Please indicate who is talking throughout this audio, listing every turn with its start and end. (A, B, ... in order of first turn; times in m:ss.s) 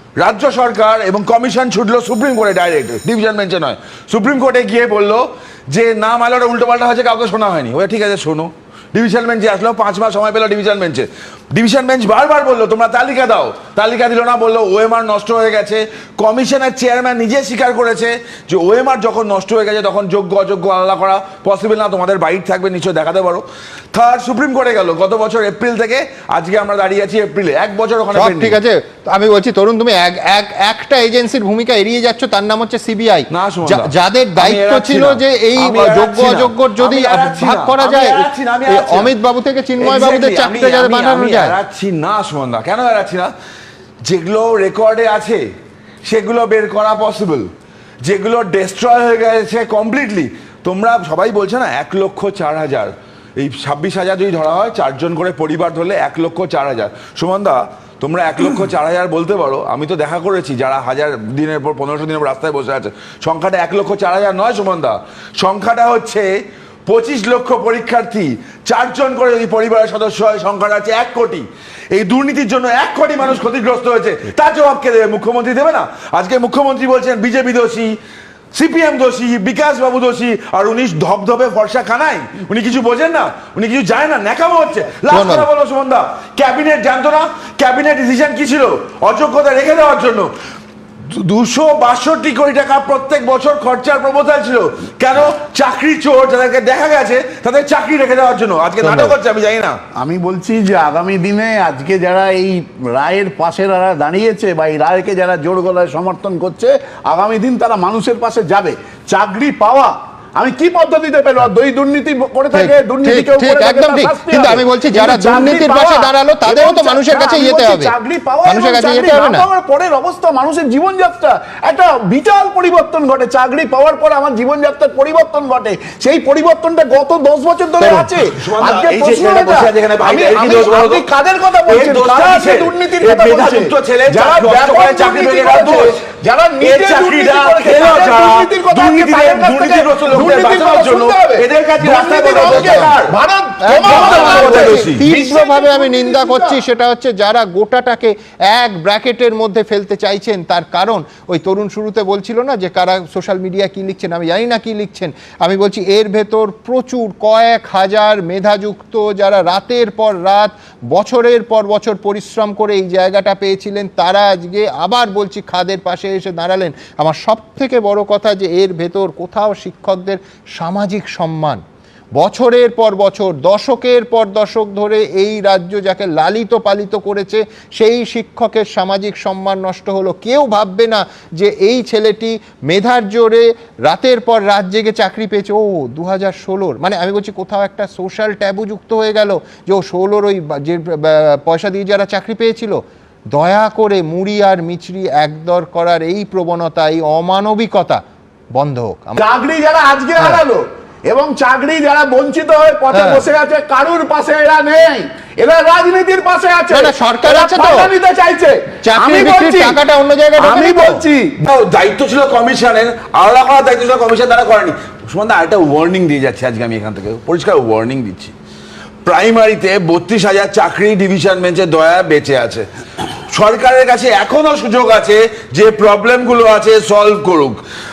0:00.2-0:28.6 A
0:28.1-0:41.6 B
0:33.3-0:39.1 A
0:39.8-0:43.3 A
0:44.0-0:45.4 A
0:46.0-0:47.5 A
0:48.0-1:06.3 A
1:06.9-1:17.9 A
1:18.5-1:30.3 A
1:25.1-1:25.5 B
1:31.1-1:39.8 A
1:38.8-1:39.2 B
1:40.0-2:26.6 C
1:52.5-1:57.9 B
1:58.4-1:59.4 B
2:07.8-2:08.1 B
2:08.2-2:11.1 A
2:11.6-2:16.0 A
2:16.6-2:23.2 A
2:23.6-2:51.6 B
2:23.8-2:25.0 A
2:52.2-3:18.0 B
3:18.5-3:19.2 B
3:19.2-3:29.8 C
3:22.9-3:23.2 B
3:26.7-3:27.9 B
3:28.8-3:31.0 B
3:30.4-3:31.3 C
3:31.4-3:38.3 A
3:39.0-3:42.6 A
3:43.3-3:47.6 A